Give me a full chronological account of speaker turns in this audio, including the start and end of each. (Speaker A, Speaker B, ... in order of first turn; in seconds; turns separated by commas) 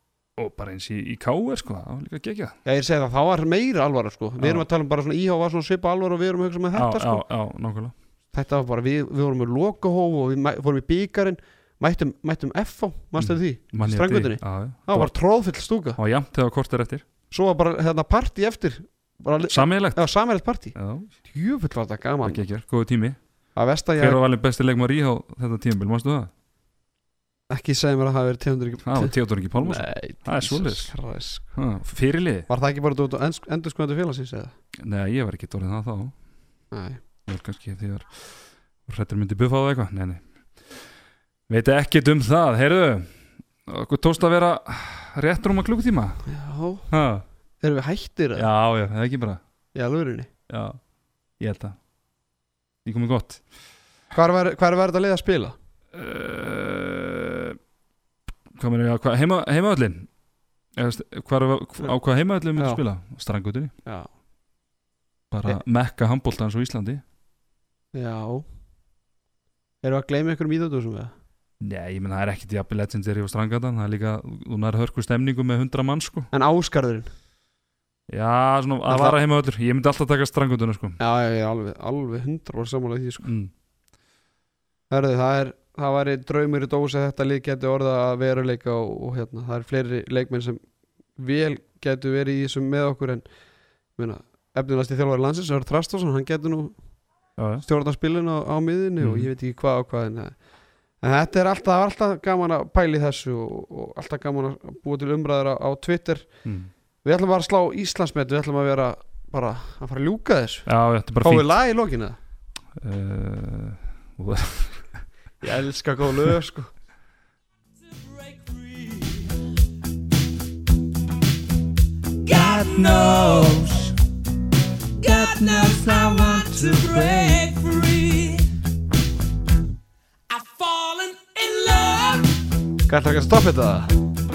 Speaker A: 0.4-2.6, Speaker B: 2.6-7.2, Speaker A: 4.4-4.7, Speaker A: 6.7-7.9, Speaker B: 8.3-16.0, Speaker A: 13.2-15.1, Speaker A: 16.0-17.1, Speaker B: 17.3-22.4, Speaker A: 19.5-20.0, Speaker A: 20.8-21.1, Speaker A: 22.2-23.2, Speaker B: 23.6-24.2, Speaker A: 24.0-26.3, Speaker B: 27.5-31.6, Speaker A: 28.8-30.9, Speaker A: 31.6-32.5, Speaker B: 32.5-34.5, Speaker A: 34.8-36.1, Speaker B: 36.7-37.0, Speaker A: 37.3-40.9, Speaker A: 41.5-46.2, Speaker B: 46.3-46.9, Speaker A: 46.9-47.2, Speaker B: 47.6-48.5, Speaker A: 48.4-49.4, Speaker B: 49.8-50.3, Speaker A: 50.5-50.8, Speaker A: 51.4-51.8, Speaker A: 52.9-53.4, Speaker B: 54.1-55.5, Speaker A: 55.9-57.6, Speaker A: 58.5-60.1, Speaker A: 60.7-63.7, Speaker B: 62.6-62.8, Speaker A: 65.3-67.0, Speaker B: 67.9-68.5, Speaker B: 69.8-71.1, Speaker A: 71.6-76.3, Speaker B: 76.3-77.1, Speaker A: 78.1-81.0, Speaker B: 78.9-79.2, Speaker B: 81.0-83.3, Speaker A: 83.2-83.5, Speaker B: 84.9-90.6, Speaker B: 91.2-93.2, Speaker B: 94.0-96.8, Speaker A: 97.4-97.7, Speaker B: 97.6-100.4, Speaker A: 99.0-99.3, Speaker B: 101.0-106.3, Speaker A: 106.5-106.7, Speaker B: 107.0-112.2, Speaker A: 110.7-111.5, Speaker A: 112.8-115.0, Speaker B: 115.4-116.7, Speaker C: 117.8-119.6, Speaker C: 122.2-123.9, Speaker A: 122.3-123.9, Speaker C: 125.0-128.6, Speaker A: 125.0-127.4, Speaker C: 130.3-132.4, Speaker B: 132.9-133.9